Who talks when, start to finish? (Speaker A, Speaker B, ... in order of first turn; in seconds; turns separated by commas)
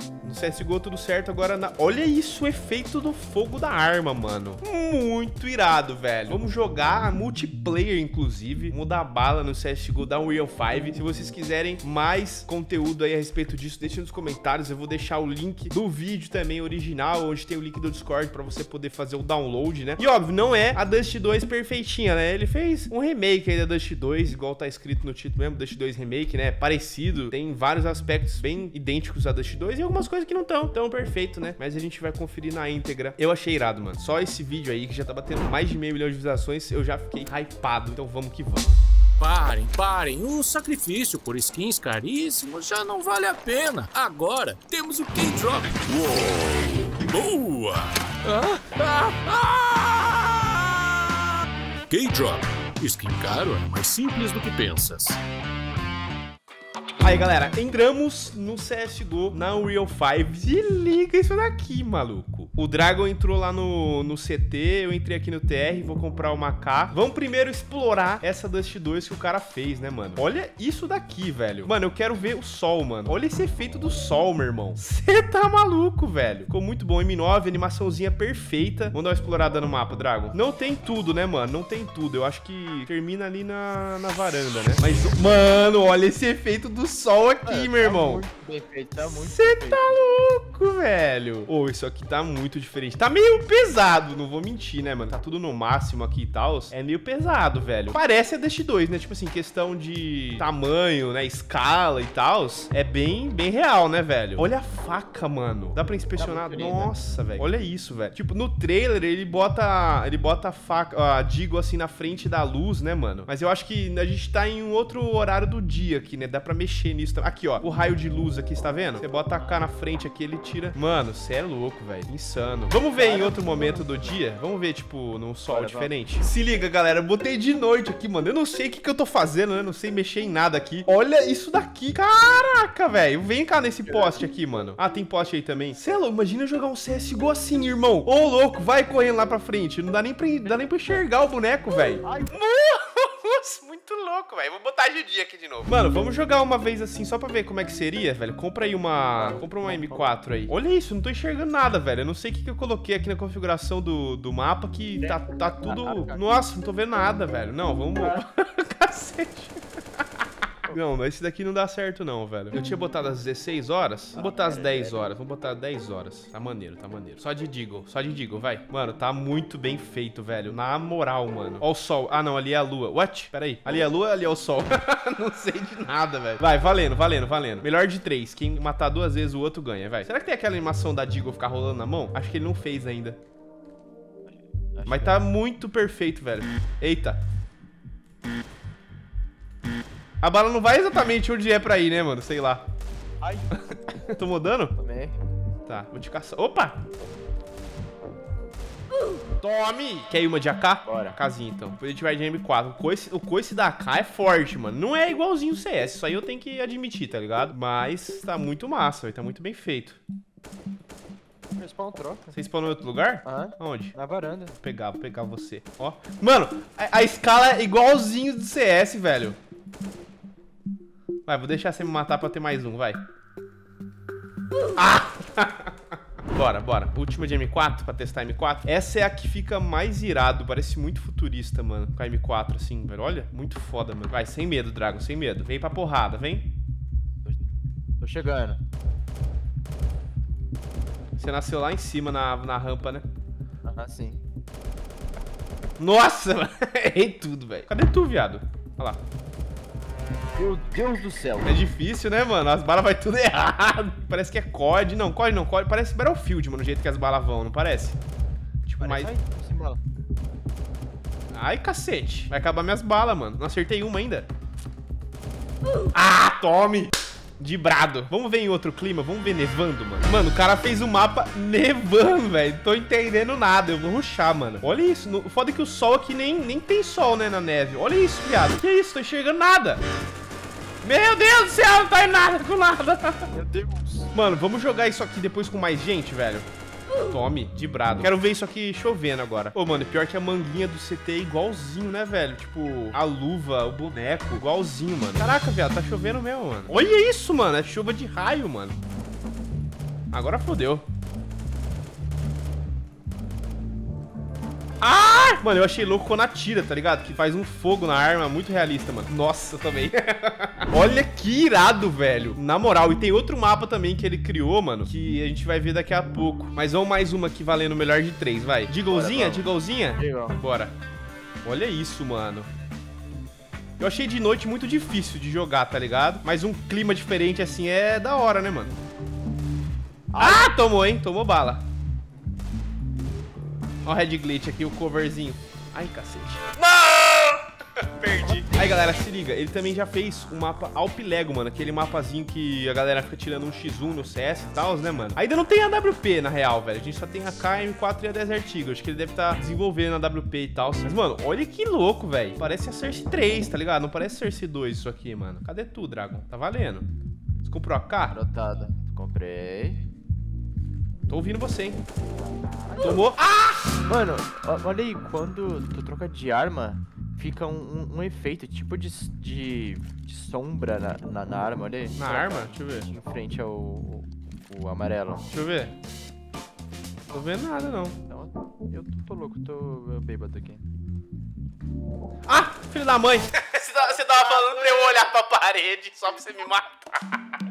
Speaker A: 0.2-38.7, Speaker B: 39.2-51.3, Speaker B: 51.9-55.2, Speaker A: 57.0-88.2, Speaker C: 87.4-89.8, Speaker A: 89.0-183.2, Speaker C: 106.2-106.9, Speaker C: 122.9-124.2, Speaker C: 125.5-125.9, Speaker C: 133.9-134.2, Speaker C: 140.6-141.0, Speaker C: 142.0-142.4, Speaker C: 149.2-150.1, Speaker C: 155.0-156.2, Speaker C: 164.2-165.1, Speaker C: 184.3-185.2, Speaker A: 184.9-187.2, Speaker A: 190.2-192.6, Speaker C: 193.2-193.5, Speaker A: 193.6-194.8, Speaker C: 194.8-195.2, Speaker A: 195.7-196.8, Speaker A: 199.4-210.0, Speaker C: 200.9-201.2, Speaker C: 211.6-212.3, Speaker A: 212.3-213.9, Speaker C: 213.2-214.6, Speaker A: 214.6-219.4, Speaker A: 221.3-223.0, Speaker A: 224.8-225.8, Speaker A: 226.3-236.5, Speaker C: 238.0-238.6, Speaker A: 241.2-243.1, Speaker C: 243.6-244.2, Speaker A: 245.8-249.0, Speaker C: 250.4-251.6, Speaker A: 251.4-258.0, Speaker A: 258.6-259.1, Speaker C: 258.8-259.8, Speaker A: 261.3-264.3, Speaker A: 265.9-279.8, Speaker A: 280.8-283.3, Speaker C: 283.3-284.1, Speaker A: 284.1-286.5, Speaker A: 287.0-298.8, Speaker A: 300.1-300.9, Speaker A: 304.8-320.7, Speaker C: 318.9-320.4, Speaker A: 321.4-322.5, Speaker A: 323.8-328.7, Speaker C: 330.1-330.6, Speaker A: 330.2-331.6, Speaker A: 333.8-356.9, Speaker C: 338.2-338.6, Speaker A: 357.4-358.2, Speaker C: 358.1-359.8, Speaker A: 361.1-361.8, Speaker C: 362.7-363.0, Speaker A: 362.8-363.8, Speaker C: 363.9-375.3, Speaker A: 372.0-372.9, Speaker A: 375.3-375.7, Speaker A: 377.1-378.0, Speaker C: 378.1-380.6, Speaker A: 382.3-386.9, Speaker C: 383.9-384.5